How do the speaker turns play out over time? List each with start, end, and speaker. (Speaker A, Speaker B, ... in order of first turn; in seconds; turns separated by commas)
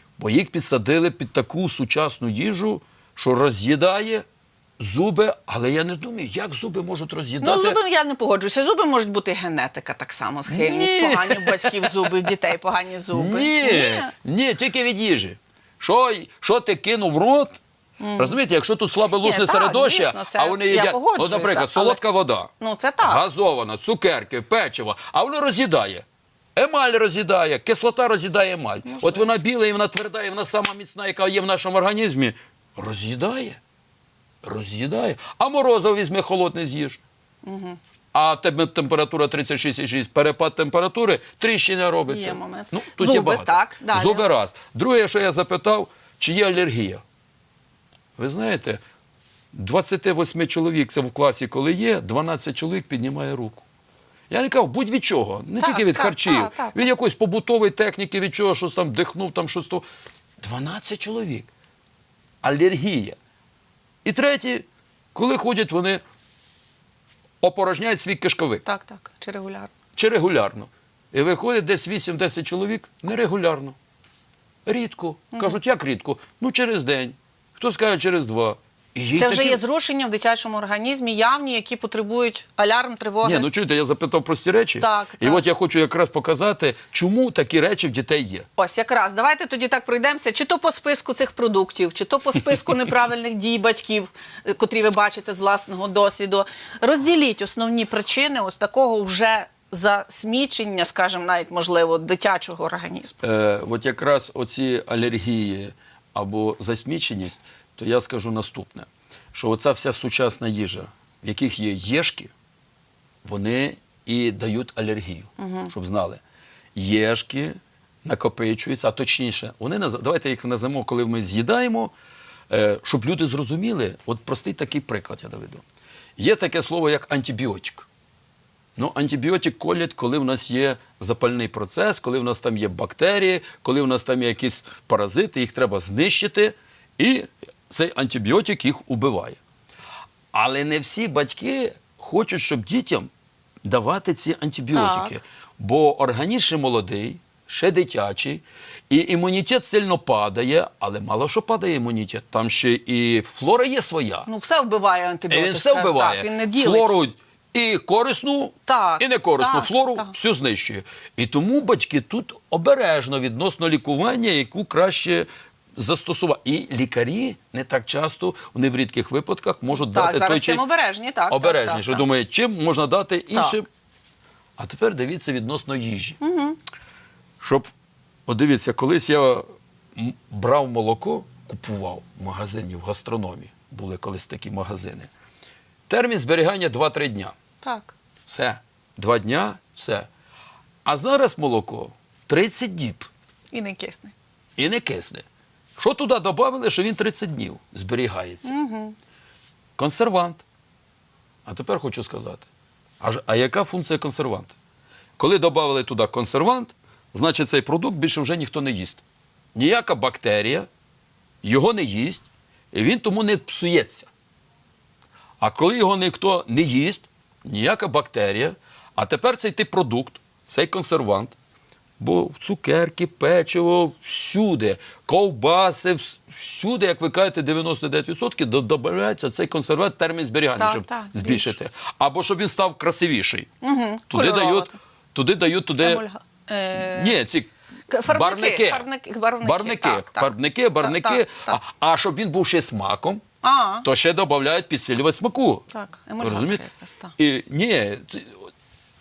Speaker A: 0.2-4.2, Speaker A: 4.8-7.8, Speaker B: 7.4-14.1, Speaker A: 10.5-12.1, Speaker A: 13.1-17.6, Speaker B: 18.0-18.4, Speaker A: 18.2-26.0, Speaker B: 19.2-22.0, Speaker B: 22.6-23.2, Speaker A: 26.6-33.6, Speaker B: 28.9-29.3, Speaker A: 34.4-37.0, Speaker B: 37.4-37.8, Speaker A: 38.1-47.0, Speaker B: 42.1-44.2, Speaker A: 48.2-48.8, Speaker A: 49.5-53.6, Speaker A: 54.3-59.8, Speaker B: 55.6-56.9, Speaker A: 60.4-61.5, Speaker A: 62.4-63.1, Speaker A: 64.0-66.0, Speaker A: 67.4-68.6, Speaker B: 68.6-69.7, Speaker A: 70.0-73.8, Speaker A: 74.7-79.6, Speaker B: 79.1-83.5, Speaker A: 83.2-88.5, Speaker B: 84.8-85.4, Speaker B: 88.6-103.1, Speaker A: 103.2-112.3, Speaker A: 113.2-116.2, Speaker B: 115.4-115.7, Speaker A: 116.7-121.9, Speaker A: 122.5-125.6, Speaker A: 126.2-127.9, Speaker A: 128.8-139.4, Speaker A: 140.3-143.1, Speaker A: 143.6-154.3, Speaker B: 144.7-145.1, Speaker B: 154.3-156.9, Speaker A: 155.3-170.6, Speaker B: 158.7-160.1, Speaker B: 169.9-172.0, Speaker A: 171.3-173.7, Speaker B: 173.3-173.6, Speaker A: 174.6-176.2, Speaker B: 176.2-176.6, Speaker A: 177.4-177.7, Speaker A: 178.3-179.4, Speaker A: 179.9-185.1, Speaker A: 185.9-187.3, Speaker B: 187.6-187.9, Speaker A: 188.3-190.1, Speaker A: 190.8-193.1, Speaker B: 193.5-194.1, Speaker A: 194.6-195.2, Speaker A: 195.8-198.5, Speaker B: 198.4-198.9, Speaker A: 199.8-200.4, Speaker A: 201.4-202.4, Speaker A: 203.0-204.5, Speaker A: 205.2-209.0, Speaker A: 209.5-210.7, Speaker A: 211.4-214.1, Speaker A: 215.4-221.3, Speaker A: 222.0-233.5, Speaker B: 230.5-231.5, Speaker B: 233.6-234.8, Speaker A: 234.1-236.0, Speaker B: 235.8-237.2, Speaker A: 236.7-237.5, Speaker B: 237.9-241.6, Speaker A: 238.1-238.8, Speaker A: 239.4-243.2, Speaker B: 243.4-243.8, Speaker A: 243.8-245.6, Speaker B: 245.7-247.1, Speaker A: 246.2-246.6, Speaker A: 247.2-248.3